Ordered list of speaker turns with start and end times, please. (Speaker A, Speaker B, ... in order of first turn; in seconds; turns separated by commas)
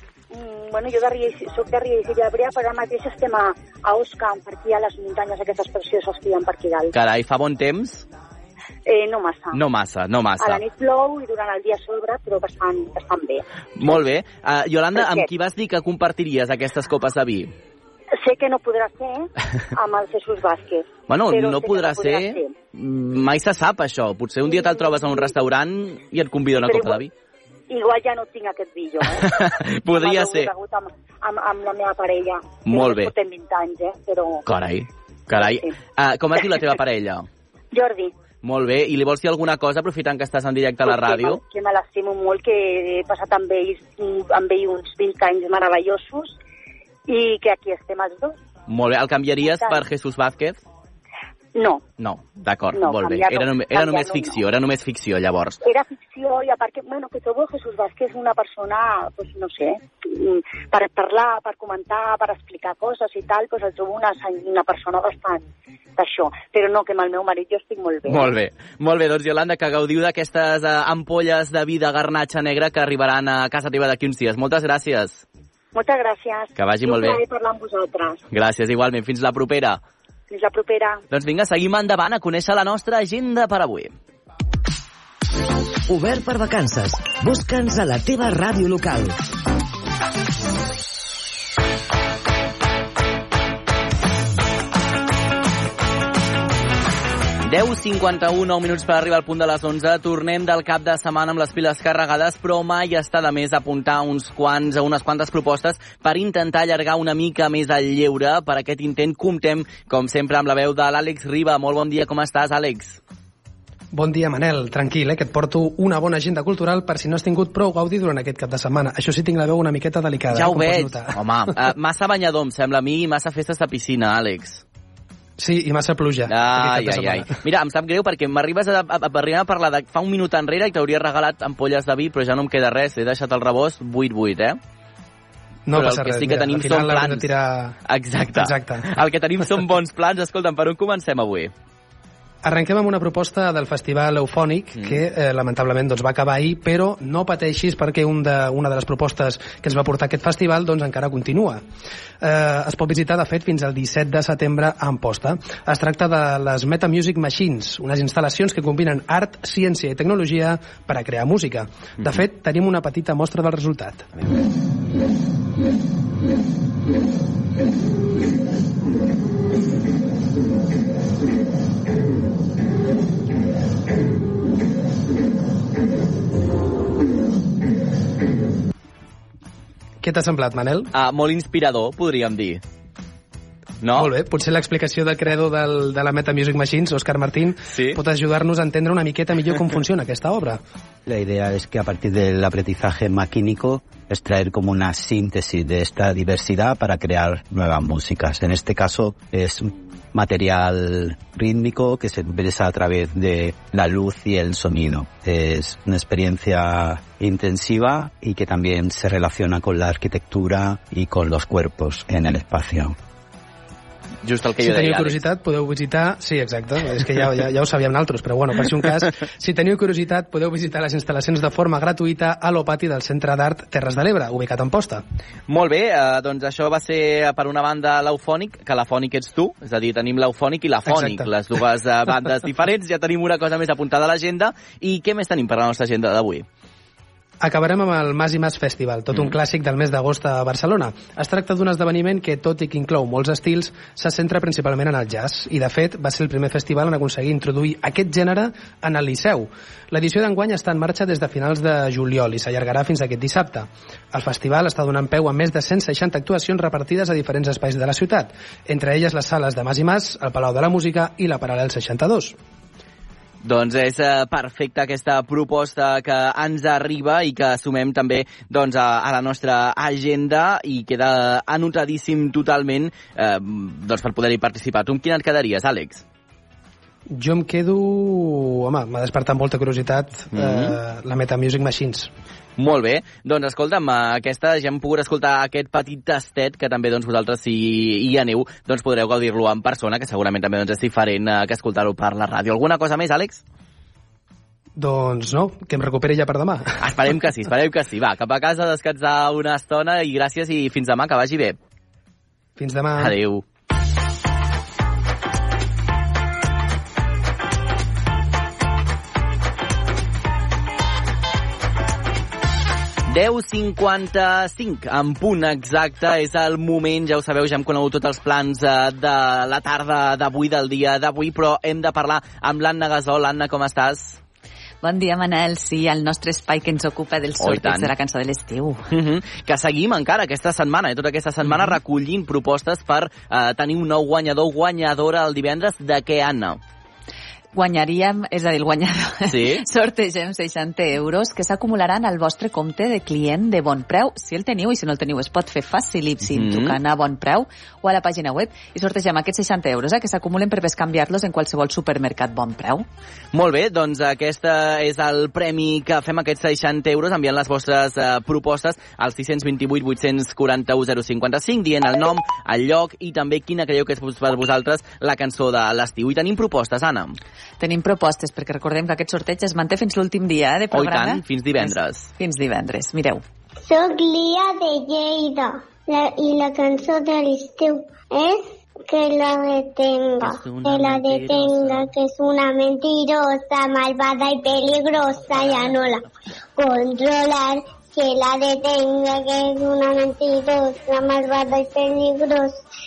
Speaker A: 0.3-6.9, Speaker B: 6.9-8.0, Speaker A: 8.8-9.6, Speaker B: 9.5-10.6, Speaker A: 10.4-14.0, Speaker B: 13.8-17.5, Speaker A: 14.9-15.3, Speaker A: 18.2-22.6, Speaker B: 21.1-27.1, Speaker A: 24.5-25.3, Speaker A: 26.6-27.1, Speaker A: 27.7-34.4, Speaker B: 29.1-30.5, Speaker B: 32.6-33.1, Speaker B: 34.5-37.3, Speaker A: 35.3-35.8, Speaker A: 37.7-38.1, Speaker B: 38.4-41.4, Speaker A: 40.8-46.3, Speaker A: 47.1-48.4, Speaker B: 48.7-50.6, Speaker A: 49.5-49.9, Speaker A: 51.5-51.8, Speaker B: 52.0-55.6, Speaker A: 52.7-54.4, Speaker A: 55.6-68.3, Speaker B: 68.0-75.2, Speaker A: 75.7-78.2, Speaker B: 76.6-77.2, Speaker B: 78.3-79.8, Speaker A: 80.3-81.0, Speaker B: 81.1-83.9, Speaker C: 85.9-89.1, Speaker B: 97.4-113.0, Speaker D: 113.9-121.2, Speaker B: 120.3-124.6, Speaker D: 125.4-127.3, Speaker B: 126.3-134.6, Speaker D: 135.7-137.8, Speaker B: 135.7-137.3, Speaker B: 137.8-141.5, Speaker D: 138.3-138.8, Speaker D: 142.4-151.6, Speaker B: 144.7-145.0, Speaker D: 152.2-164.1, Speaker D: 180.0-180.9, Speaker B: 180.9-182.6, Speaker B: 183.8-184.1, Speaker D: 183.9-190.6, Speaker B: 187.7-188.0, Speaker E: 191.1-212.9, Speaker B: 214.2-215.2, Speaker D: 214.6-225.0, Speaker B: 225.5-236.4, Speaker D: 230.8-231.3, Speaker D: 237.4-262.4, Speaker B: 263.4-276.0, Speaker D: 277.1-282.1, Speaker B: 280.3-280.8, Speaker B: 282.6-293.4, Speaker D: 294.8-296.6, Speaker B: 296.8-301.6, Speaker D: 302.6-303.1, Speaker B: 303.0-303.4, Speaker B: 313.1-324.2, Speaker F: 324.8-328.9, Speaker B: 327.4-327.9, Speaker B: 328.9-336.6, Speaker F: 337.5-352.9, Speaker B: 339.3-339.6, Speaker B: 346.2-346.8, Speaker B: 353.3-367.2, Speaker F: 367.6-373.2, Speaker B: 370.7-372.1, Speaker G: 373.6-386.0, Speaker B: 380.2-381.9, Speaker B: 385.1-385.9, Speaker G: 386.6-392.6